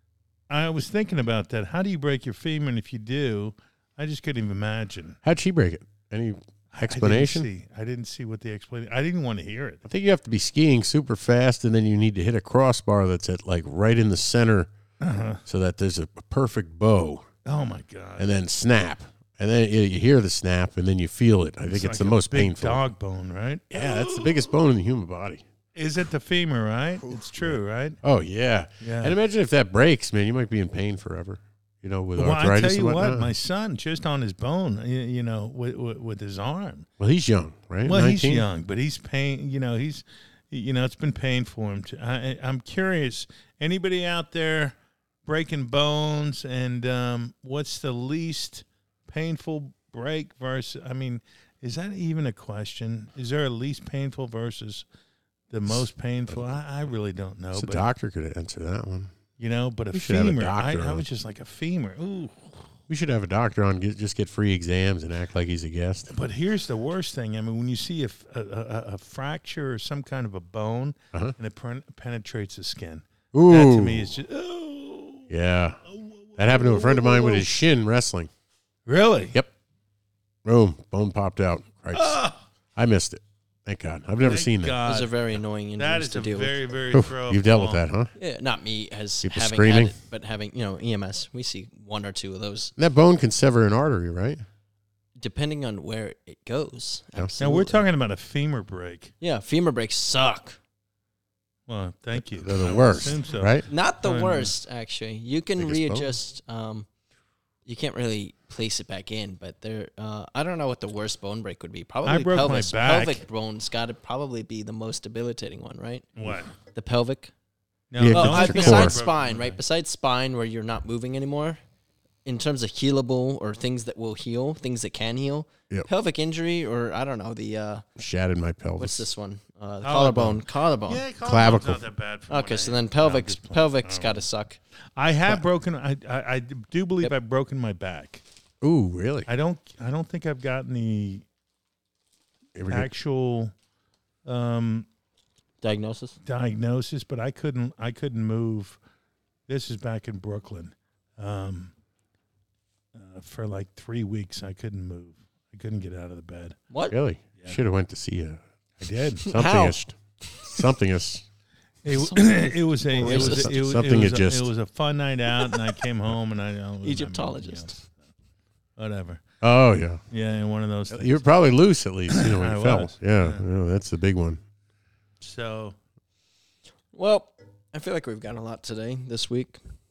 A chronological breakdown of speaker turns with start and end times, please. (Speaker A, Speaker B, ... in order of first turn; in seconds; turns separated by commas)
Speaker A: 0.5-5.2, Speaker B: 5.2-7.5, Speaker A: 6.7-9.8, Speaker B: 9.8-14.7, Speaker A: 15.0-15.4, Speaker B: 15.4-17.2, Speaker A: 17.4-18.3, Speaker B: 18.2-22.8, Speaker A: 21.7-24.4, Speaker B: 23.7-25.4, Speaker A: 25.7-28.0, Speaker B: 27.4-33.3, Speaker A: 28.8-29.2, Speaker A: 32.1-36.9, Speaker B: 37.0-38.5, Speaker A: 37.8-54.8, Speaker A: 55.5-57.8, Speaker B: 57.5-59.1, Speaker A: 59.4-62.7, Speaker B: 59.9-61.0, Speaker B: 62.9-66.1, Speaker A: 66.1-75.3, Speaker B: 73.3-74.2, Speaker B: 75.3-75.8, Speaker A: 75.9-77.6, Speaker B: 76.4-78.3, Speaker A: 78.9-79.4, Speaker B: 80.4-82.2, Speaker A: 81.9-82.4, Speaker B: 82.7-84.8, Speaker A: 84.2-87.8, Speaker C: 84.8-86.7, Speaker B: 86.9-88.1, Speaker C: 88.2-92.7, Speaker B: 89.2-89.9, Speaker B: 92.8-94.4, Speaker C: 95.2-97.8, Speaker A: 97.4-99.1, Speaker C: 99.2-100.6, Speaker A: 101.7-104.5, Speaker B: 102.2-103.6, Speaker C: 103.7-106.9, Speaker B: 105.6-106.1, Speaker C: 107.7-116.1, Speaker A: 112.0-113.2, Speaker A: 116.2-116.5, Speaker C: 116.7-117.3, Speaker A: 117.9-119.6, Speaker B: 118.0-119.0, Speaker C: 118.1-121.6, Speaker C: 122.2-127.8, Speaker B: 128.0-129.0, Speaker C: 128.8-131.0, Speaker A: 129.8-134.2, Speaker B: 131.2-131.8, Speaker C: 132.3-134.6, Speaker A: 135.0-138.2, Speaker B: 138.6-139.3, Speaker A: 139.3-141.2, Speaker B: 142.6-142.9, Speaker A: 142.7-143.5, Speaker A: 144.2-144.9, Speaker C: 145.6-146.2, Speaker A: 146.2-148.8, Speaker A: 149.5-151.7, Speaker A: 152.9-156.6, Speaker B: 156.9-158.4, Speaker A: 158.8-159.2, Speaker C: 159.2-159.8, Speaker B: 159.2-161.2, Speaker C: 160.3-160.6, Speaker A: 161.8-167.9, Speaker C: 161.9-163.5, Speaker B: 163.0-164.5, Speaker C: 166.8-167.8, Speaker A: 168.8-169.2, Speaker B: 169.4-170.0, Speaker A: 170.1-171.3, Speaker B: 170.9-174.4, Speaker A: 172.1-173.4, Speaker A: 175.2-175.8, Speaker C: 176.9-179.6